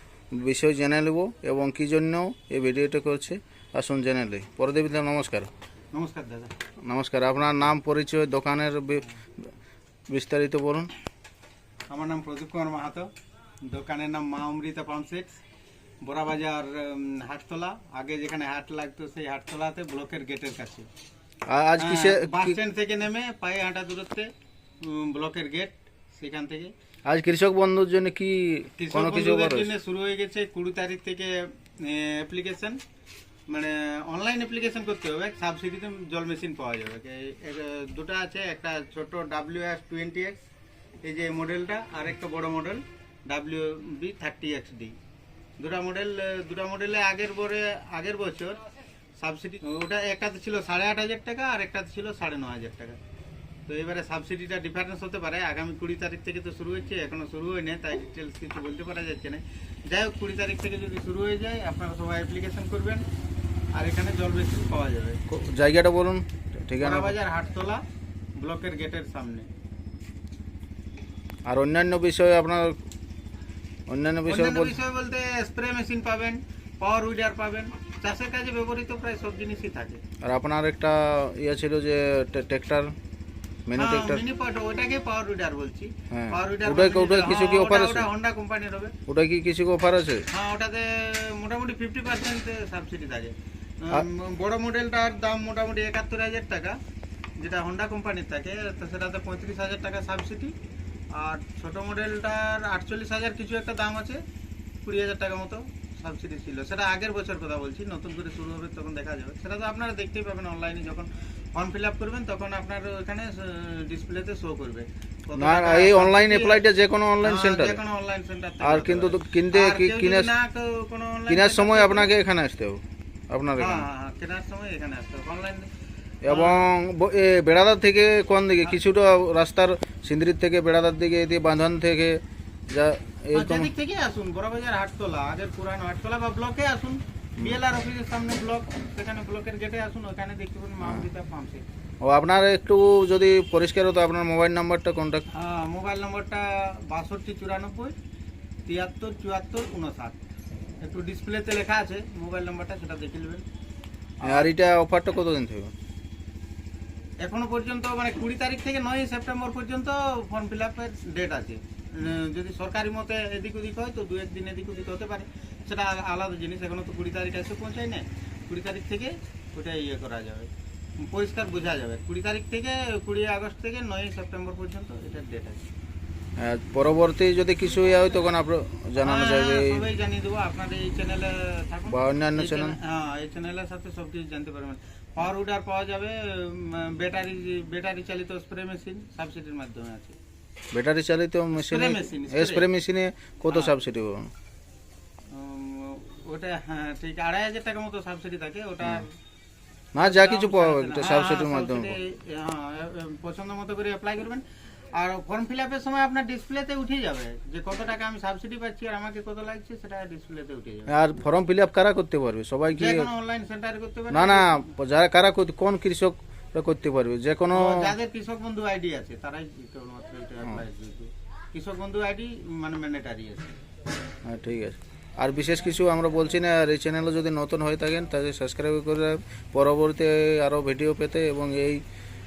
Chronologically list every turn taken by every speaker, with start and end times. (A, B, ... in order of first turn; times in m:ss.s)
0:00.3-0:05.5 A
0:05.9-0:06.6 B
0:06.8-0:09.5 A
0:10.1-0:10.9 A
0:11.9-0:13.1 B
0:13.7-0:15.4 B
0:16.0-0:20.9 B
0:21.5-0:22.6 A
0:21.8-0:26.7 B
0:27.1-0:29.7 A
0:28.8-0:32.8 B
0:33.5-0:40.4 B
0:41.0-0:45.0 B
0:45.6-0:48.6 B
0:49.2-0:53.0 B
0:53.7-1:03.0 B
1:03.7-1:05.2 B
1:05.3-1:07.2 A
1:06.8-1:07.8 B
1:08.3-1:09.5 B
1:11.5-1:12.8 A
1:13.9-1:14.8 A
1:14.3-1:20.0 B
1:20.2-1:22.9 A
1:23.6-1:24.2 A
1:23.8-1:29.0 B
1:26.1-1:28.1 A
1:29.1-1:30.2 A
1:30.3-1:36.8 B
1:37.4-1:40.5 B
1:41.1-1:44.2 B
1:44.8-1:56.7 B
1:55.4-1:57.8 A
1:57.2-2:02.2 B
1:58.6-2:00.3 A
2:01.3-2:03.8 A
2:03.6-2:05.7 B
2:06.2-2:13.7 A
2:06.3-2:06.6 B
2:13.3-2:21.6 B
2:22.0-2:25.2 A
2:25.3-2:28.0 B
2:28.6-2:30.2 B
2:30.8-2:33.4 B
2:34.2-2:34.5 B
2:34.3-2:35.7 A
2:37.2-2:50.5 B
2:51.0-2:55.6 B
2:56.4-2:59.8 A
2:59.0-3:10.2 B
3:01.9-3:02.8 A
3:10.7-3:14.3 A
3:11.5-3:12.7 B
3:13.5-3:13.7 B
3:15.3-3:19.1 B
3:19.9-3:21.9 A
3:20.0-3:30.9 B
3:30.9-3:33.1 A
3:32.7-3:34.6 B
3:34.1-3:37.9 A
3:37.5-3:43.5 B
3:44.2-3:51.8 A